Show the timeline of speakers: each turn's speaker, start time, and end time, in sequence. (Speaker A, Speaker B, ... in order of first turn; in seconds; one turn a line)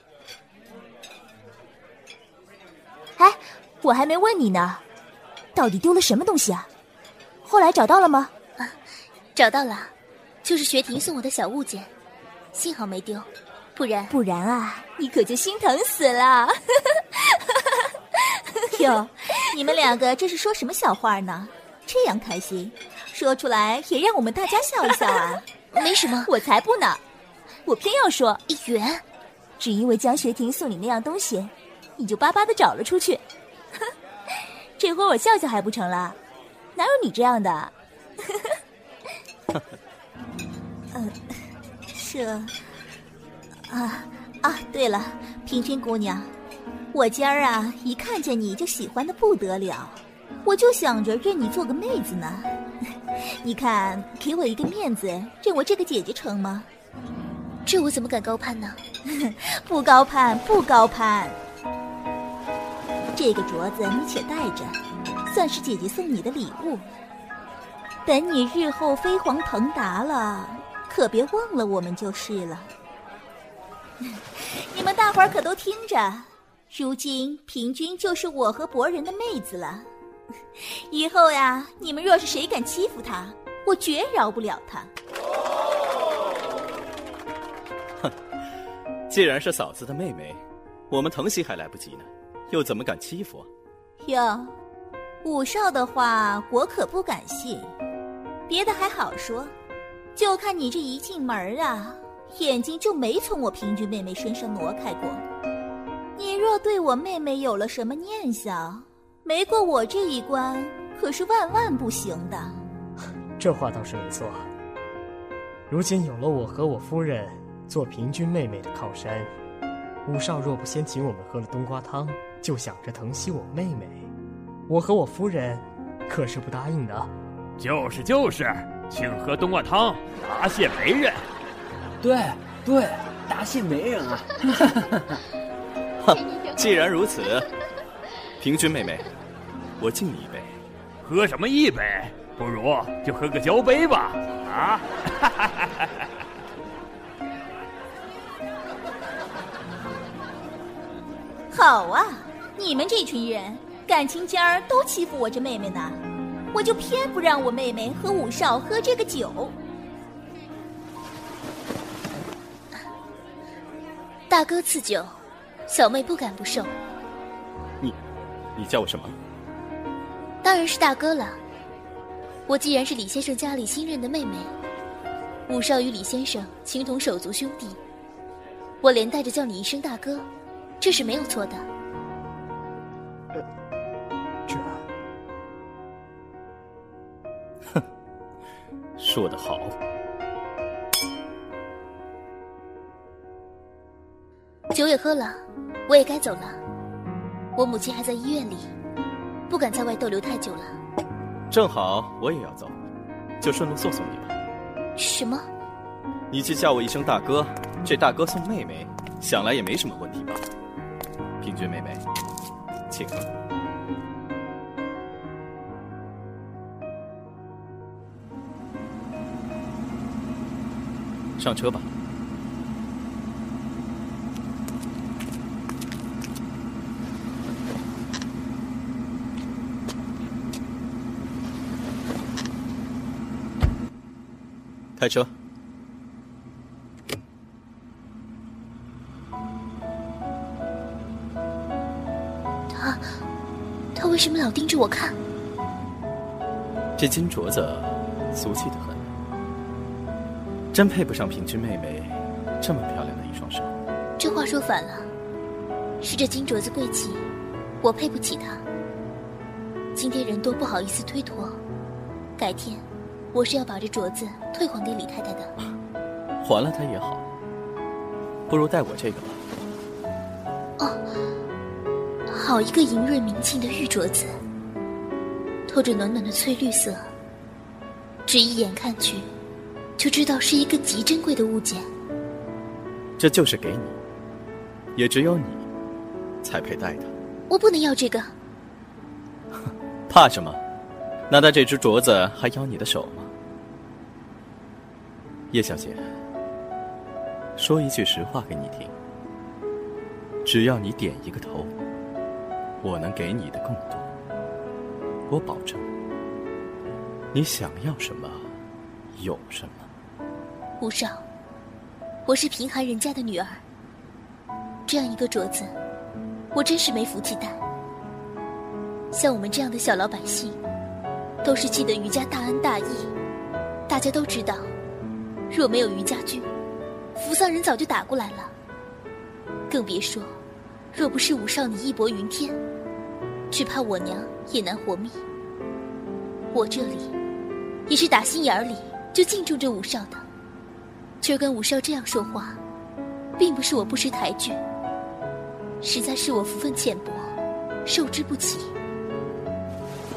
Speaker A: 3.2-4.8
Speaker A: 5.5-6.7
Speaker A: 7.4-8.3
Speaker B: 9.3-11.9
Speaker B: 12.5-14.2
Speaker A: 14.1-16.5
Speaker A: 18.7-27.0
Speaker B: 25.7-26.3
Speaker A: 27.6-28.4
Speaker B: 28.5-29.0
Speaker A: 29.6-33.2
Speaker A: 34.8-36.2
Speaker A: 36.8-37.7
Speaker A: 41.9-42.5
Speaker A: 43.7-46.3
Speaker A: 46.9-52.5
Speaker A: 53.2-56.7
Speaker B: 57.7-58.8
Speaker A: 59.1-61.4
Speaker A: 63.2-66.9
Speaker A: 68.0-72.7
Speaker A: 74.0-79.9
Speaker A: 80.6-84.9
Speaker C: 89.1-93.5
Speaker A: 94.0-94.5
Speaker A: 95.2-97.7
Speaker A: 98.5-99.5
Speaker A: 100.2-105.2
Speaker A: 106.2-112.6
Speaker D: 113.4-114.5
Speaker D: 115.7-119.3
Speaker D: 120.0-124.1
Speaker D: 124.7-127.1
Speaker E: 127.6-131.2
Speaker F: 132.0-134.3
Speaker C: 136.0-137.5
Speaker C: 138.4-139.1
Speaker C: 139.8-140.6
Speaker E: 141.0-145.5
Speaker A: 151.5-156.0
Speaker A: 156.5-159.6
Speaker B: 164.3-165.2
Speaker B: 165.7-166.7
Speaker C: 168.6-169.2
Speaker B: 170.4-171.4
Speaker B: 172.5-174.5
Speaker B: 175.5-177.8
Speaker B: 178.8-180.3
Speaker B: 180.8-181.7
Speaker D: 184.5-184.8
Speaker C: 189.0-189.8
Speaker B: 194.7-196.6
Speaker B: 197.6-198.7
Speaker B: 199.5-200.8
Speaker C: 201.5-202.8
Speaker C: 203.4-204.3
Speaker B: 205.0-205.5
Speaker C: 206.3-210.5
Speaker C: 211.4-212.1
Speaker C: 212.9-213.3
Speaker C: 221.4-221.9
Speaker C: 235.0-235.3
Speaker B: 242.7-243.1
Speaker B: 243.9-245.2
Speaker C: 247.0-249.1
Speaker C: 250.7-253.7
Speaker B: 254.2-255.1
Speaker B: 256.0-257.2
Speaker B: 257.8-258.6
Speaker B: 259.9-261.6
Speaker B: 262.4-265.5
Speaker C: 266.4-267.2
Speaker C: 268.5-269.4
Speaker B: 272.3-274.3
Speaker B: 275.7-277.1
Speaker B: 278.2-279.3
Speaker B: 280.0-281.9
Speaker C: 283.2-284.0
Speaker C: 284.9-285.6
Speaker C: 286.4-287.1
Speaker B: 287.5-288.3
Speaker C: 290.1-290.6
Speaker C: 291.3-293.3
Speaker C: 295.5-296.0
Speaker C: 297.6-298.9
Speaker C: 300.4-301.7
Speaker C: 302.8-304.1
Speaker C: 305.3-305.9
Speaker C: 307.3-308.5
Speaker C: 309.1-309.9
Speaker B: 310.8-311.2
Speaker B: 312.2-313.6
Speaker B: 314.9-315.7
Speaker B: 316.5-317.6
Speaker B: 319.1-320.6
Speaker B: 321.4-323.1
Speaker B: 323.9-324.7
Speaker B: 325.5-326.5
Speaker B: 327.2-328.5
Speaker B: 329.7-330.4
Speaker B: 330.9-332.6
Speaker B: 333.5-335.2
Speaker B: 336.5-337.1
Speaker B: 337.9-340.2
Speaker B: 341.2-342.6
Speaker B: 343.4-344.6
Speaker B: 345.8-347.3
Speaker B: 347.9-348.7